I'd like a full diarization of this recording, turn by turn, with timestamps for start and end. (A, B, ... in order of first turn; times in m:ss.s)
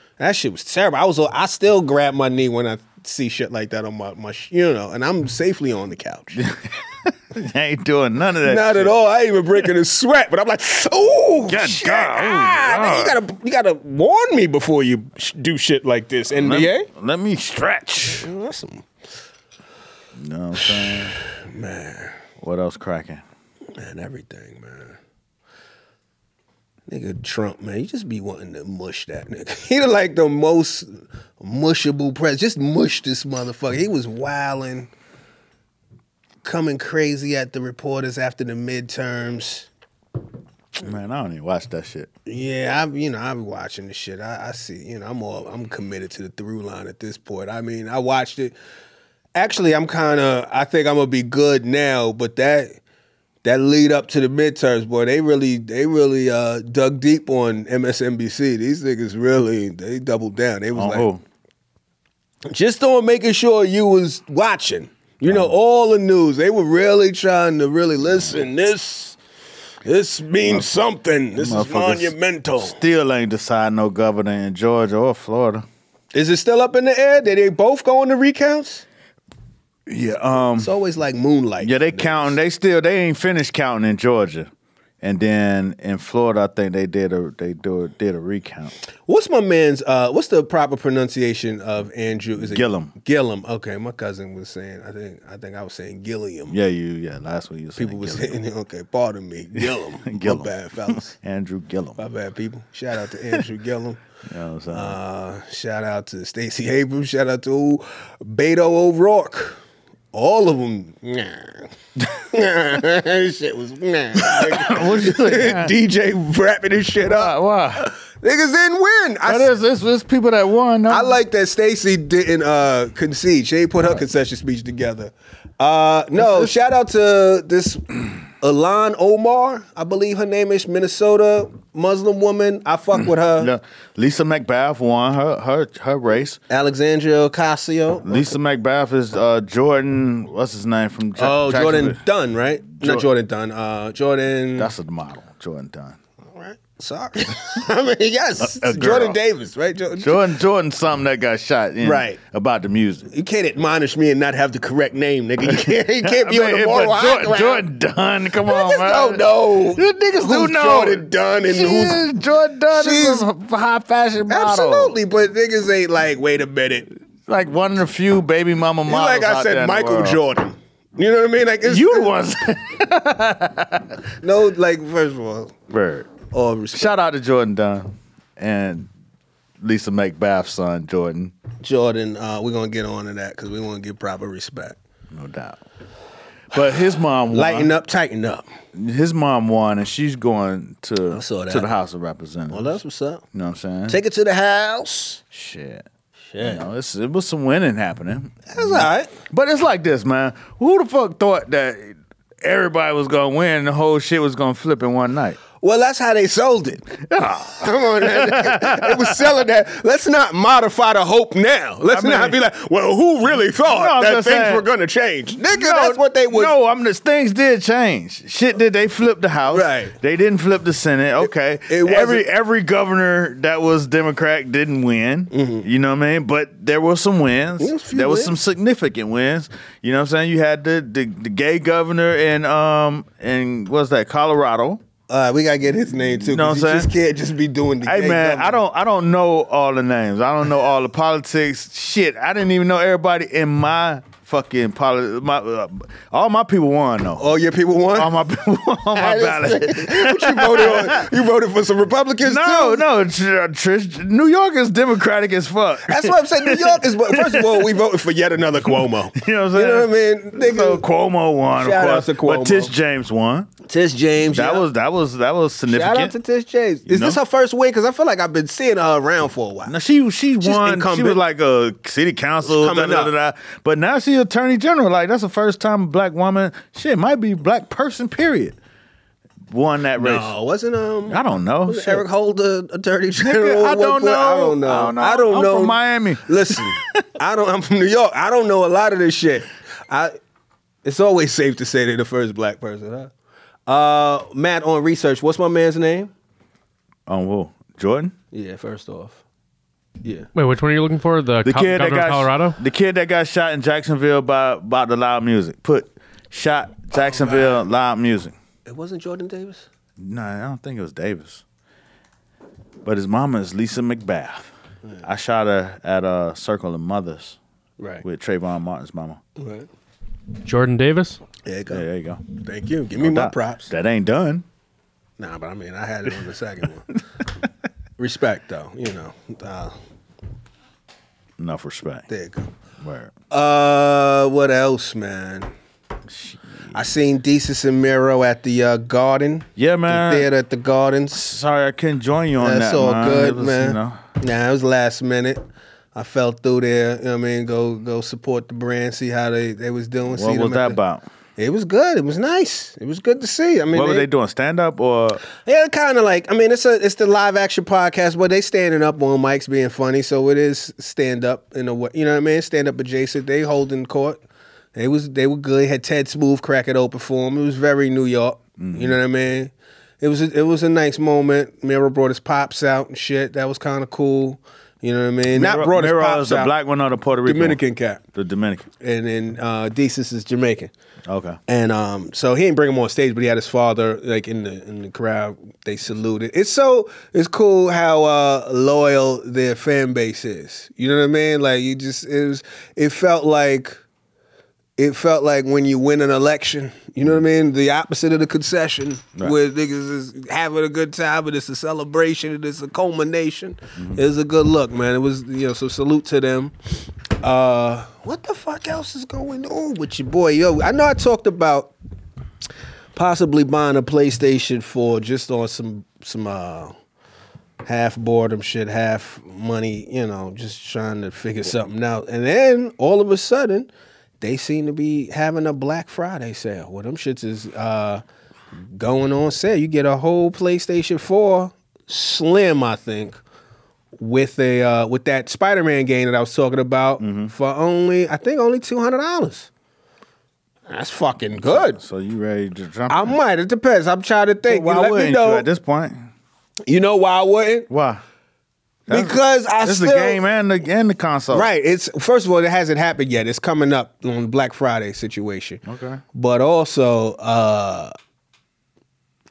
0:00.2-0:06.4 A
0:06.4-0:08.9 B
0:08.4-0:16.9 A
0:11.5-0:13.2 B
0:16.3-0:18.3 B
0:18.0-0:18.9 A
0:20.2-0:21.2 B
0:20.8-0:22.2 A
0:22.4-0:23.2 B
0:23.8-0:25.0 A
0:26.9-0:34.9 A
0:36.4-0:39.7 A
0:40.8-0:42.1 B
0:42.3-0:48.5 A
0:49.4-0:52.8 A
0:53.4-1:01.1 A
1:00.8-1:01.2 B
1:02.5-1:09.2 A
1:09.8-1:12.8 A
1:11.4-1:15.6 B
1:16.1-1:18.9 A
1:19.9-1:20.7 B
1:20.6-1:22.4 A
1:21.6-1:24.5 B
1:25.0-1:28.7 B
1:29.1-1:36.6 A
1:32.4-1:32.9 B
1:36.5-1:38.4 B
1:37.8-1:41.1 A
1:39.6-1:42.0 B
1:42.0-1:44.0 A
1:44.3-1:45.0 B
1:44.7-1:49.6 A
1:50.1-1:59.5 A
1:54.2-1:55.8 B
1:57.0-1:57.9 B
1:59.2-2:01.2 B
2:00.9-2:13.5 A
2:06.2-2:06.5 B
2:13.4-2:16.4 B
2:16.5-2:18.3 A
2:18.0-2:22.0 B
2:21.2-2:24.7 A
2:22.8-2:23.1 B
2:24.6-2:26.0 B
2:26.3-2:30.3 A
2:28.4-2:29.2 B
2:30.0-2:33.1 B
2:31.8-2:32.2 A
2:33.1-2:37.7 A
2:35.4-2:45.0 B
2:38.4-2:42.0 A
2:42.7-2:43.3 A
2:44.3-2:46.9 A
2:47.3-2:50.2 B
2:48.9-2:52.1 A
2:51.6-2:54.0 B
2:54.2-2:55.5 A
2:55.7-2:56.1 B
2:56.3-2:57.0 A
2:56.7-2:58.9 B
2:59.6-3:01.3 B
3:01.6-3:04.8 A
3:05.1-3:05.6 B
3:06.5-3:07.7 B
3:07.3-3:08.4 A
3:08.7-3:12.7 B
3:11.1-3:11.7 A
3:12.5-3:13.2 A
3:13.3-3:14.0 B
3:13.9-3:15.2 A
3:15.3-3:15.9 B
3:16.3-3:16.6 A
3:16.4-3:25.4 B
3:18.5-3:19.1 A
3:25.6-3:26.9 A
3:27.0-3:29.2 B
3:27.5-3:36.5 A
3:31.9-3:32.4 B
3:33.6-3:34.7 B
3:35.5-3:54.8 B
3:39.5-3:39.9 A
3:41.2-3:42.2 A
3:45.3-3:45.7 A
3:47.6-3:48.4 A
3:55.1-3:58.6 A
3:56.2-3:56.9 B
3:57.8-4:07.3 B
4:07.2-4:08.2 A
4:08.0-4:11.1 B
4:09.0-4:12.9 A
4:12.2-4:17.8 B
4:15.9-4:20.8 A
4:18.8-4:23.5 B
4:21.6-4:22.7 A
4:23.6-4:24.7 A
4:24.3-4:26.1 B
4:25.7-4:29.8 A
4:26.9-4:27.2 B
4:29.7-4:38.6 B
4:30.4-4:31.2 A
4:32.4-4:33.1 A
4:39.5-4:40.3 B
4:40.0-4:50.2 A
4:41.1-4:42.0 B
4:43.2-4:47.0 B
4:50.8-4:53.1 A
4:53.7-4:56.1 A
4:57.1-4:58.1 B
4:58.3-4:59.2 A
5:00.0-5:00.3 A
5:00.3-5:02.6 C
5:01.4-5:08.4 B
5:07.0-5:07.6 A
5:08.7-5:09.7 A
5:10.0-5:11.4 B
5:12.8-5:14.5 B
5:15.0-5:17.4 B
5:17.8-5:18.0 A
5:18.0-5:19.2 B
5:19.4-5:19.7 A
5:20.4-5:21.2 C
5:21.4-5:23.7 A
5:21.7-5:22.2 B
5:23.0-5:24.4 B
5:25.2-5:26.9 A
5:28.0-5:29.8 A
5:31.4-5:32.1 B
5:32.1-5:32.5 A
5:32.8-5:33.1 B
5:33.3-5:35.5 A
5:36.1-5:36.7 B
5:36.7-5:41.2 A
5:39.6-5:40.3 B
5:41.1-5:44.0 B
5:42.4-5:45.4 A
5:46.0-5:50.8 A
5:50.1-5:51.0 B
5:51.4-5:54.1 A
5:53.7-5:55.2 B
5:55.4-6:04.2 A
6:04.7-6:16.5 A
6:08.6-6:09.0 B
6:15.3-6:17.6 B
6:17.2-6:18.0 A
6:18.1-6:18.7 B
6:18.8-6:20.7 A
6:21.1-6:21.4 B
6:21.5-6:33.8 A
6:34.8-6:46.6 A
6:47.1-6:51.7 A
6:53.0-6:56.7 A
6:57.6-7:03.7 A
7:04.2-7:08.0 A
7:08.7-7:13.2 A
7:14.0-7:19.5 A
7:17.0-7:17.3 B
7:20.7-7:21.8 A
7:21.4-7:23.2 B
7:22.9-7:25.5 A
7:24.5-7:26.1 B
7:26.7-7:27.7 A
7:27.7-7:28.0 B
7:28.9-7:31.5 B
7:28.9-7:30.2 A
7:31.3-7:35.6 A
7:35.6-7:36.0 B
7:36.1-7:37.9 A